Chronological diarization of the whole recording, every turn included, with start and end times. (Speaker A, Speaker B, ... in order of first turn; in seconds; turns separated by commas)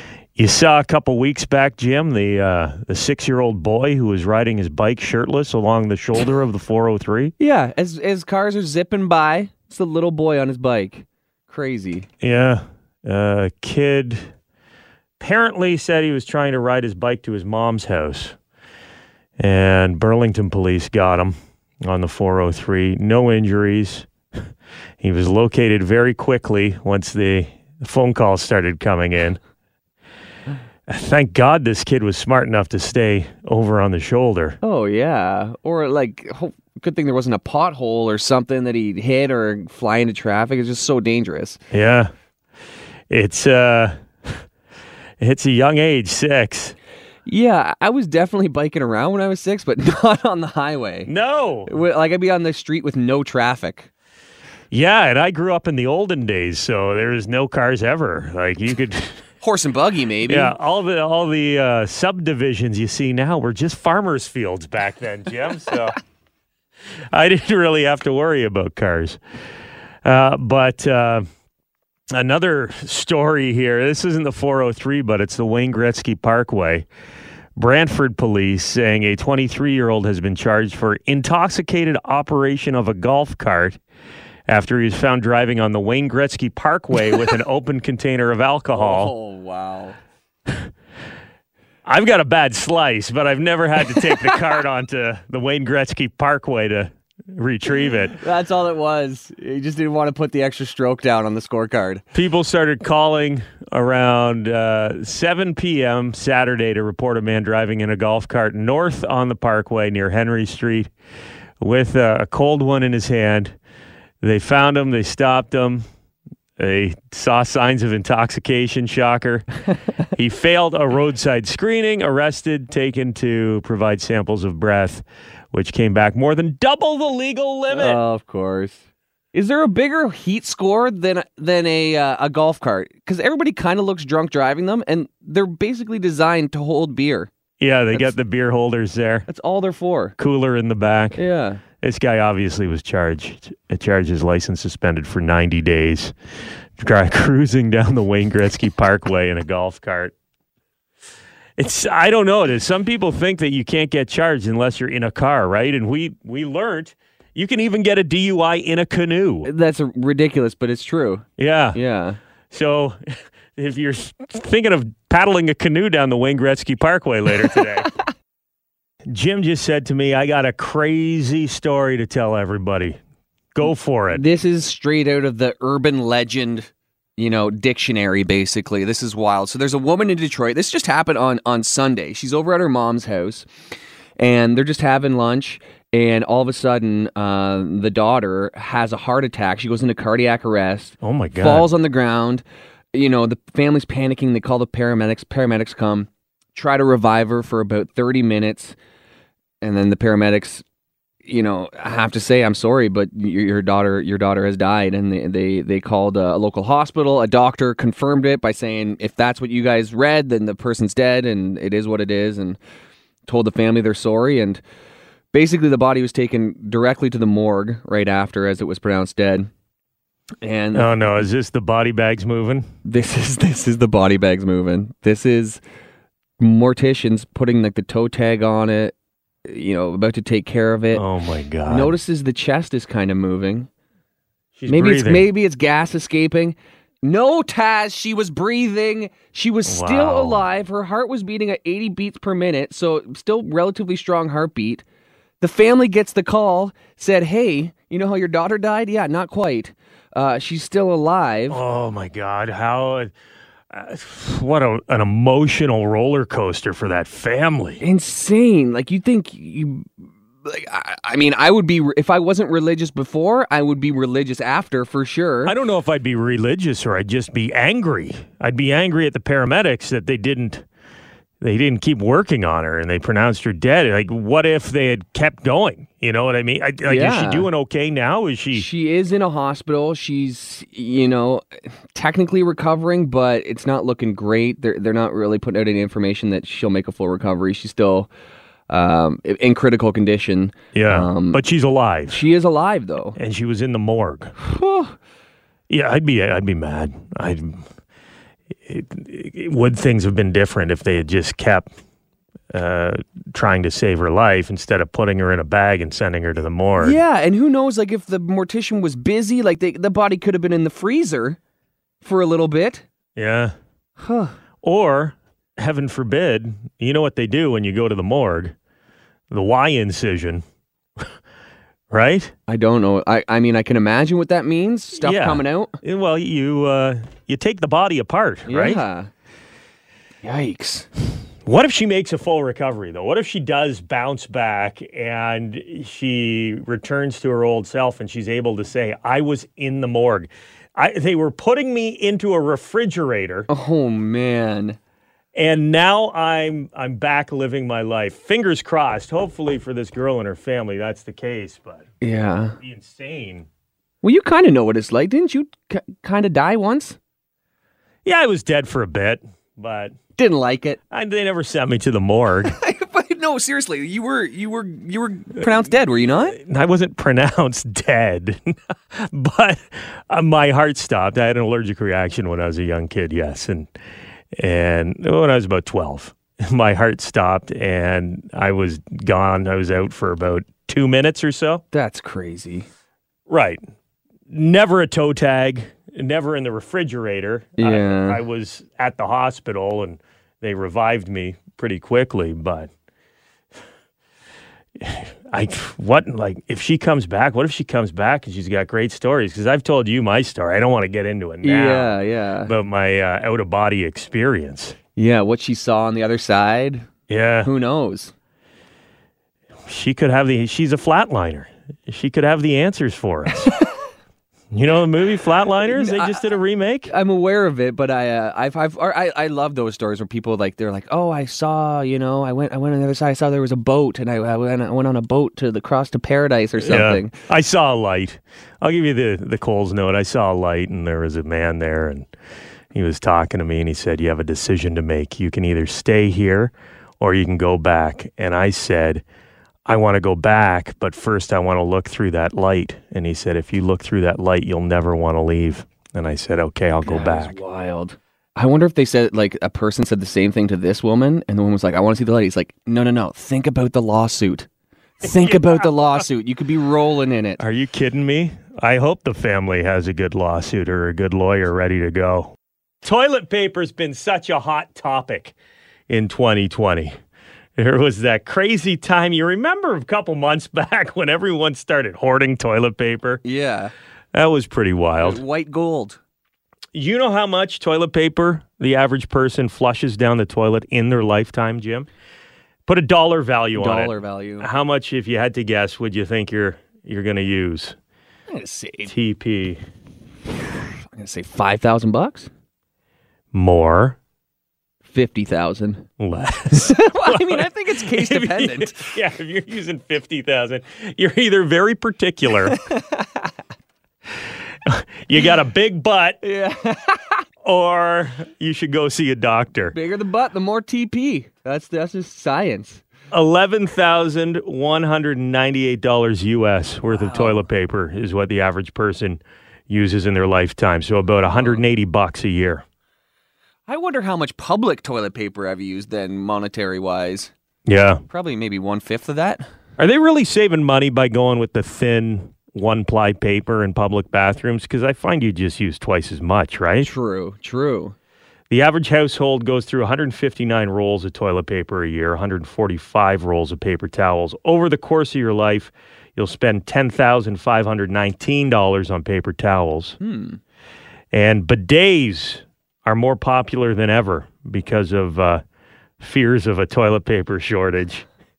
Speaker A: 0.4-7.3, Speaker B: 7.4-12.1, Speaker A: 12.2-14.3, Speaker A: 15.2-18.4, Speaker A: 19.4-24.1, Speaker A: 25.0-29.4, Speaker A: 30.9-34.6, Speaker B: 34.6-41.6, Speaker A: 41.7-42.1, Speaker A: 43.1-44.4, Speaker A: 45.2-46.8, Speaker B: 47.3-51.1, Speaker A: 51.1-51.7, Speaker B: 51.7-53.9, Speaker A: 54.7-59.2, Speaker B: 59.4-60.5, Speaker A: 60.2-66.0, Speaker A: 67.1-69.2, Speaker A: 70.0-71.3, Speaker A: 72.1-76.9, Speaker A: 77.6-83.8, Speaker A: 84.5-89.1, Speaker B: 88.7-90.0, Speaker A: 91.9-98.2, Speaker B: 98.1-102.0, Speaker A: 102.1-110.9, Speaker A: 111.6-113.6, Speaker A: 114.2-115.8, Speaker A: 116.6-119.5, Speaker A: 120.1-128.0, Speaker B: 127.7-137.3, Speaker A: 137.6-139.3, Speaker B: 139.3-140.2, Speaker A: 140.2-141.2, Speaker B: 141.2-141.6, Speaker A: 141.8-146.1, Speaker A: 146.8-150.1, Speaker A: 151.6-159.5, Speaker B: 159.4-162.2, Speaker A: 161.4-161.8, Speaker A: 162.5-167.9, Speaker A: 169.1-173.0, Speaker A: 173.5-174.2, Speaker B: 174.1-183.5, Speaker B: 184.2-198.8, Speaker A: 191.0-191.7, Speaker B: 199.6-200.6, Speaker B: 201.3-212.6, Speaker B: 213.3-214.6, Speaker B: 215.3-219.5, Speaker B: 220.4-220.9, Speaker A: 220.7-222.7, Speaker B: 222.8-225.6, Speaker B: 226.4-228.9, Speaker B: 229.4-231.0, Speaker A: 230.9-231.9, Speaker B: 231.7-233.7, Speaker A: 234.6-235.3, Speaker B: 234.7-244.8, Speaker A: 239.7-240.4, Speaker B: 245.4-251.6, Speaker A: 251.5-253.1, Speaker A: 253.7-257.8, Speaker B: 257.8-259.9, Speaker B: 260.4-265.6, Speaker A: 265.4-270.6, Speaker A: 271.4-278.7, Speaker B: 276.9-277.5, Speaker B: 278.5-288.1, Speaker B: 288.7-291.4, Speaker A: 290.7-292.2, Speaker B: 292.1-293.2, Speaker A: 293.2-294.4, Speaker B: 294.4-294.9, Speaker A: 295.7-297.6, Speaker A: 298.7-301.7, Speaker A: 302.5-307.0, Speaker B: 306.8-311.4, Speaker B: 312.0-312.9, Speaker A: 313.2-313.6, Speaker B: 314.0-314.4, Speaker A: 314.6-318.6, Speaker A: 319.3-320.4, Speaker A: 321.9-322.3, Speaker B: 322.5-325.8, Speaker A: 325.0-328.8, Speaker B: 328.5-329.1, Speaker B: 330.2-330.9, Speaker A: 331.4-343.5, Speaker B: 343.5-344.8, Speaker A: 345.4-351.9, Speaker B: 352.0-352.6, Speaker A: 352.6-353.5, Speaker B: 354.0-357.0, Speaker A: 358.1-360.0, Speaker B: 360.2-360.8, Speaker A: 360.9-362.6, Speaker B: 362.4-366.4, Speaker A: 366.3-373.7, Speaker A: 374.3-381.6, Speaker B: 381.7-382.7, Speaker A: 383.3-383.6, Speaker A: 384.3-392.7, Speaker B: 387.6-388.2, Speaker A: 394.8-404.8, Speaker B: 401.4-402.5, Speaker B: 405.0-406.9, Speaker A: 407.1-407.5, Speaker B: 407.4-408.1, Speaker A: 409.7-413.5, Speaker A: 414.5-416.9, Speaker B: 415.6-416.3, Speaker B: 416.9-427.1, Speaker A: 426.6-432.1, Speaker A: 432.7-439.0, Speaker A: 439.7-447.4, Speaker B: 446.8-454.5, Speaker B: 455.0-457.4, Speaker A: 455.1-455.4, Speaker A: 457.4-465.3, Speaker A: 465.9-467.0, Speaker A: 467.6-473.2, Speaker B: 473.2-473.7, Speaker A: 474.1-475.2, Speaker B: 475.0-476.0, Speaker A: 476.7-481.9, Speaker A: 482.7-487.8, Speaker B: 483.5-484.5, Speaker B: 488.3-488.9, Speaker A: 488.9-489.6, Speaker B: 490.9-492.3, Speaker A: 493.3-494.0, Speaker B: 494.9-495.9, Speaker A: 496.0-502.6, Speaker B: 496.5-498.9, Speaker B: 502.5-503.4, Speaker A: 504.6-506.2, Speaker B: 506.2-507.2, Speaker A: 507.4-509.8, Speaker B: 509.7-512.8, Speaker A: 513.1-522.6, Speaker B: 516.9-517.5, Speaker B: 521.4-521.6, Speaker B: 523.7-527.3, Speaker A: 527.7-528.0, Speaker B: 528.1-529.5, Speaker A: 529.8-536.9, Speaker B: 536.8-538.0, Speaker A: 538.5-550.0, Speaker B: 550.0-550.4, Speaker A: 551.1-555.4, Speaker A: 556.0-558.1